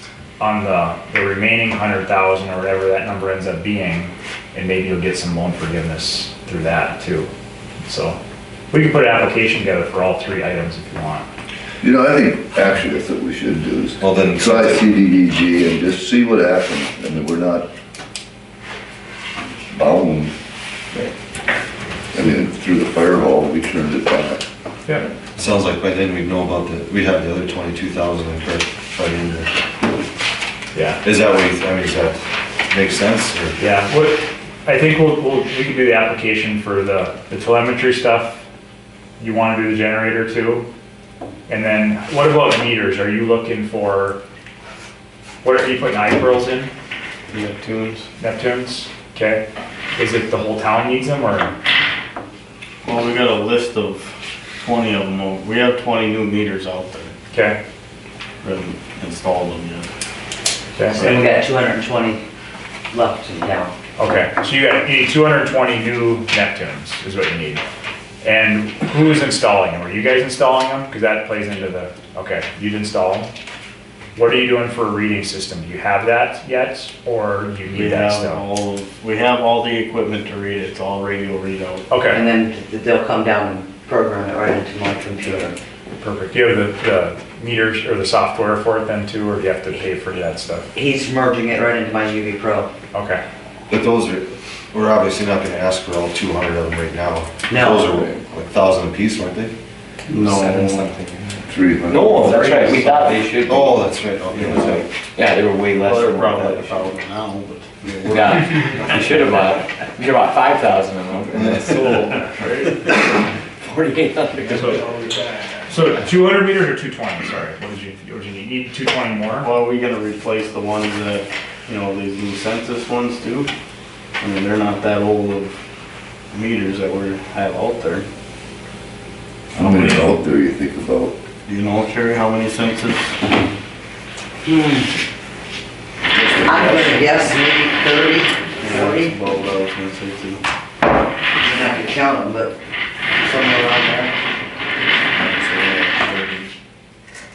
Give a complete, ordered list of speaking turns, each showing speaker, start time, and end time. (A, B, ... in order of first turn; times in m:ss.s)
0:00.4-0:07.3 A
0:07.8-0:08.2 A
0:08.7-0:11.3 A
0:11.8-0:17.7 B
0:14.0-0:14.8 C
0:19.7-0:20.3 B
0:22.1-0:24.4 B
0:25.4-0:29.5 C
0:30.7-0:31.0 A
0:31.0-0:32.2 C
0:32.7-0:33.6 C
0:33.6-0:38.4 A
0:39.2-0:40.7 A
0:41.5-0:44.2 A
0:45.4-0:46.7 A
0:47.3-0:48.0 D
0:48.2-0:49.4 A
0:50.0-0:51.5 A
0:52.8-0:57.1 D
0:57.3-0:57.6 A
0:58.4-0:59.9 D
1:00.8-1:01.3 A
1:01.0-1:01.3 D
1:01.0-1:02.2 E
1:02.9-1:03.7 E
1:04.0-1:07.6 A
1:08.2-1:13.3 A
1:14.2-1:18.4 A
1:17.7-1:21.9 D
1:21.9-1:22.2 A
1:22.1-1:25.6 E
1:26.0-1:30.7 A
1:30.7-1:32.7 E
1:32.9-1:33.2 A
1:33.7-1:39.5 C
1:37.5-1:38.0 E
1:40.1-1:40.9 D
1:40.1-1:41.6 F
1:41.5-1:42.3 B
1:41.9-1:44.8 C
1:42.3-1:46.8 F
1:45.7-1:49.2 D
1:48.0-1:52.0 F
1:51.4-1:53.0 D
1:53.6-1:54.9 F
1:55.7-1:59.5 A
1:59.4-2:03.5 D
2:04.2-2:05.6 D
2:06.3-2:08.0 D
2:09.5-2:11.1 B
2:09.6-2:10.1 D
2:11.4-2:13.3 D
2:14.4-2:14.9 E
2:16.1-2:17.1 B
2:16.4-2:19.2 E
2:18.6-2:20.4 D
2:21.3-2:22.6 E
2:23.2-2:24.1 E
2:25.1-2:26.5 D